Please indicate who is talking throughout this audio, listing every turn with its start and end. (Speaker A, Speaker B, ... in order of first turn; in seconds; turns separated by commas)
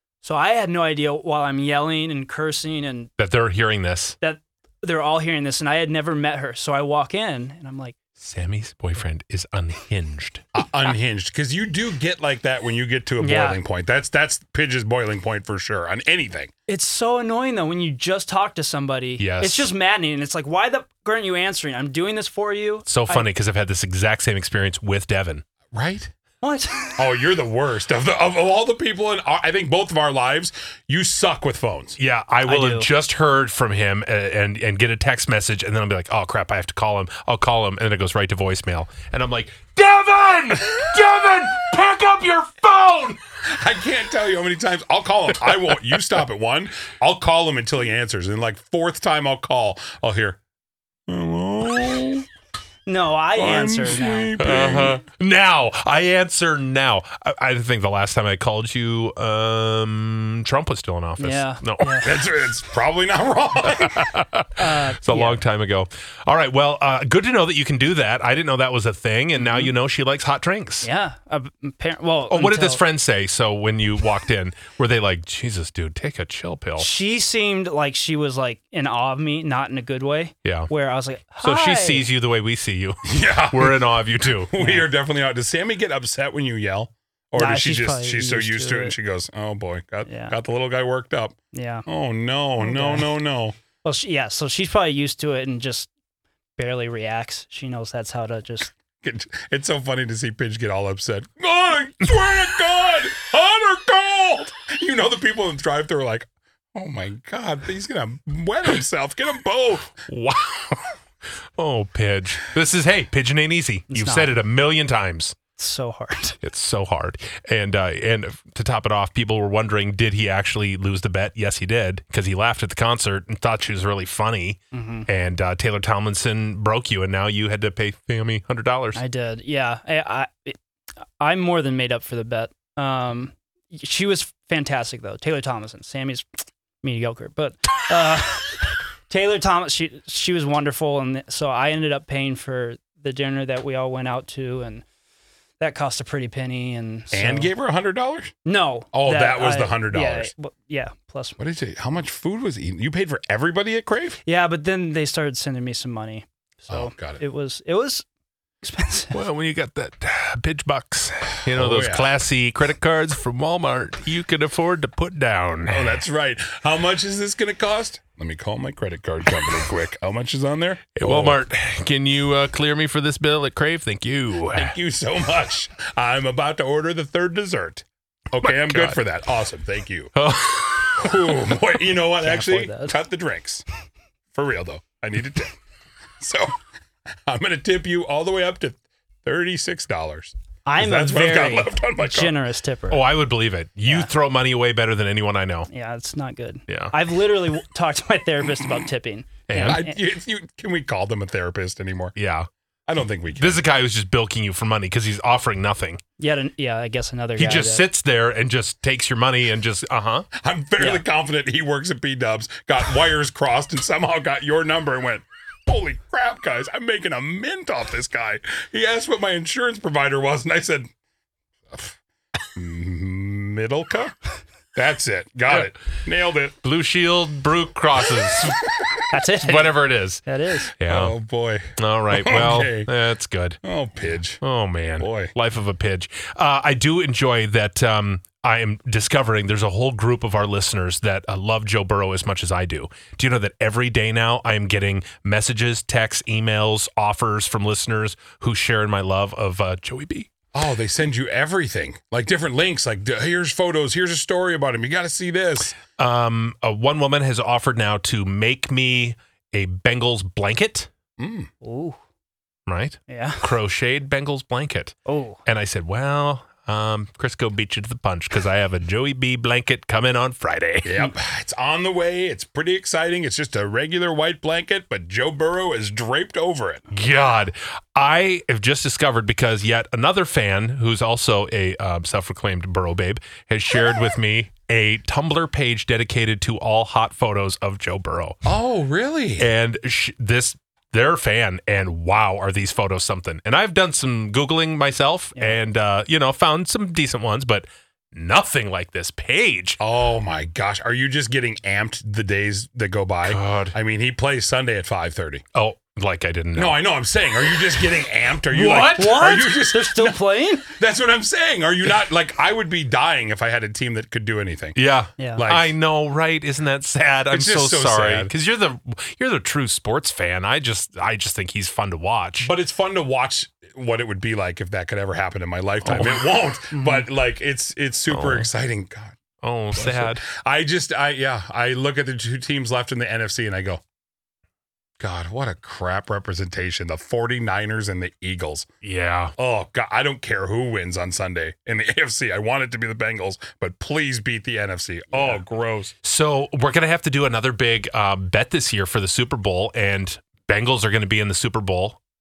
Speaker A: 0.2-3.1, Speaker B: 3.2-4.2, Speaker A: 4.2-8.0, Speaker B: 8.2-10.4, Speaker C: 10.6-16.5, Speaker A: 13.2-13.6, Speaker A: 16.7-23.3, Speaker B: 19.2-19.7, Speaker B: 22.9-25.4, Speaker C: 25.7-26.1, Speaker A: 26.4-27.0, Speaker C: 27.0-32.0, Speaker B: 32.0-43.2, Speaker A: 32.5-32.9, Speaker C: 43.5-50.4, Speaker C: 51.1-52.3, Speaker A: 52.9-54.6, Speaker C: 53.4-55.0, Speaker B: 54.4-62.0, Speaker A: 61.2-62.2, Speaker C: 62.0-64.1, Speaker B: 63.8-70.9, Speaker A: 64.6-65.4, Speaker A: 69.4-69.7, Speaker A: 70.8-72.8, Speaker B: 72.3-76.9, Speaker A: 76.8-82.1, Speaker B: 80.5-80.7, Speaker B: 81.4-84.5, Speaker C: 83.1-84.0, Speaker C: 84.5-93.6, Speaker A: 84.6-84.9, Speaker A: 87.4-89.0, Speaker A: 90.1-90.4, Speaker A: 91.5-91.9, Speaker A: 92.6-93.1, Speaker A: 93.8-95.9, Speaker A: 96.6-98.7, Speaker C: 99.0-110.0, Speaker B: 110.1-110.8, Speaker B: 111.6-115.3, Speaker A: 113.9-114.3, Speaker A: 115.6-116.4, Speaker B: 116.4-129.0, Speaker A: 124.7-125.1, Speaker A: 128.9-130.6, Speaker A: 131.2-136.3, Speaker A: 136.8-144.8, Speaker A: 145.6-147.5, Speaker C: 147.1-148.3, Speaker A: 148.4-151.4, Speaker C: 148.9-150.3, Speaker C: 151.4-154.2, Speaker A: 154.3-158.1, Speaker C: 156.7-157.2, Speaker A: 158.6-159.2, Speaker B: 159.1-166.0, Speaker C: 161.5-162.1, Speaker C: 165.7-171.4, Speaker B: 171.0-174.8, Speaker C: 174.6-180.1, Speaker B: 178.4-179.0, Speaker B: 180.2-181.3, Speaker C: 180.9-183.6, Speaker A: 182.2-183.0, Speaker C: 184.3-185.6, Speaker C: 186.2-186.6, Speaker C: 187.3-192.3, Speaker A: 190.7-193.1, Speaker B: 192.9-195.7, Speaker A: 195.7-200.0, Speaker B: 196.7-196.9, Speaker B: 199.5-199.8, Speaker C: 199.6-202.1, Speaker B: 202.2-202.5, Speaker C: 202.9-203.6, Speaker B: 203.4-206.0, Speaker A: 206.2-207.8, Speaker B: 207.4-210.3, Speaker C: 210.4-220.9, Speaker C: 222.5-224.2, Speaker C: 224.8-226.6, Speaker B: 225.5-225.7, Speaker B: 226.6-228.6, Speaker A: 229.1-230.7, Speaker B: 229.4-230.2, Speaker B: 230.8-231.2, Speaker C: 230.9-232.9, Speaker B: 231.8-233.6, Speaker C: 233.6-234.4, Speaker B: 234.4-250.3, Speaker C: 235.0-235.3, Speaker C: 250.5-255.8, Speaker B: 256.0-260.9, Speaker C: 261.2-261.5, Speaker A: 261.6-262.0, Speaker B: 262.7-271.1, Speaker A: 263.1-263.5, Speaker A: 265.1-265.4, Speaker C: 270.9-276.8, Speaker B: 276.9-288.4, Speaker C: 288.4-289.5, Speaker B: 289.4-299.8, Speaker C: 299.8-305.4, Speaker B: 303.3-303.7, Speaker B: 305.6-306.8, Speaker C: 306.6-314.8, Speaker B: 307.4-307.9, Speaker B: 308.5-309.3, Speaker A: 308.6-310.7, Speaker B: 314.8-322.5, Speaker A: 315.2-315.4, Speaker C: 315.4-315.7, Speaker C: 317.3-318.3, Speaker C: 322.4-329.1, Speaker B: 325.8-326.3, Speaker A: 326.7-327.1, Speaker B: 328.1-328.5, Speaker B: 329.4-330.3, Speaker C: 329.8-333.8, Speaker C: 335.0-338.7, Speaker B: 338.8-339.3, Speaker C: 339.4-345.9, Speaker B: 346.0-352.0